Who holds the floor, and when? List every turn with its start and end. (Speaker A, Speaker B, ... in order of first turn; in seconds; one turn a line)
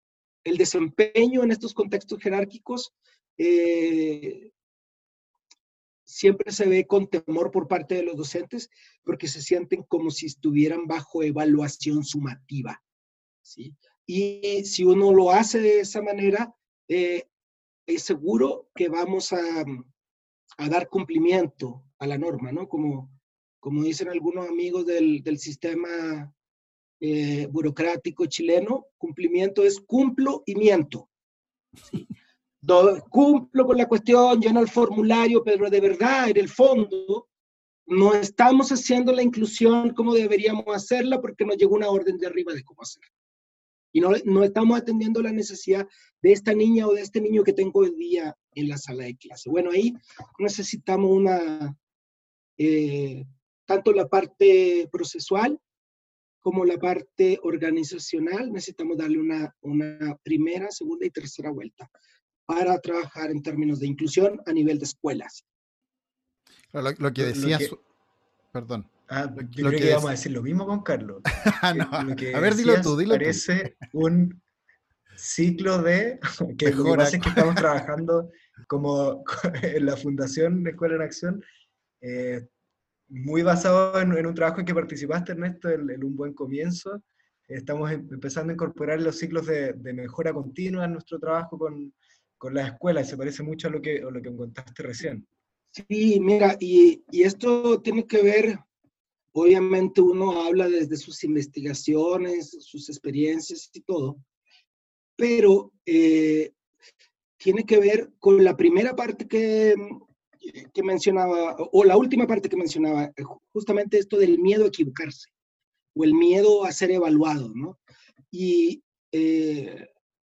Speaker A: 0.5-4.5
Speaker A: 6.1-12.8
Speaker A: 13.4-17.3
Speaker A: 17.9-19.9
Speaker A: 20.6-26.3
Speaker A: 27.0-31.1
Speaker A: 32.6-37.3
Speaker A: 37.9-43.1
Speaker A: 43.9-51.8
Speaker A: 52.6-55.6
Speaker A: 56.4-61.9
Speaker A: 62.5-65.5
Speaker B: 66.7-67.8
Speaker C: 67.2-67.8
Speaker B: 68.5-70.1
Speaker C: 69.1-74.4
Speaker B: 71.4-73.8
Speaker C: 75.2-81.4
Speaker B: 76.7-77.7
Speaker C: 82.0-82.5
Speaker C: 83.1-95.3
Speaker A: 95.7-98.6
Speaker A: 99.3-104.2
Speaker A: 105.2-106.5
Speaker A: 107.4-115.3
Speaker A: 116.0-117.8
Speaker A: 118.3-119.9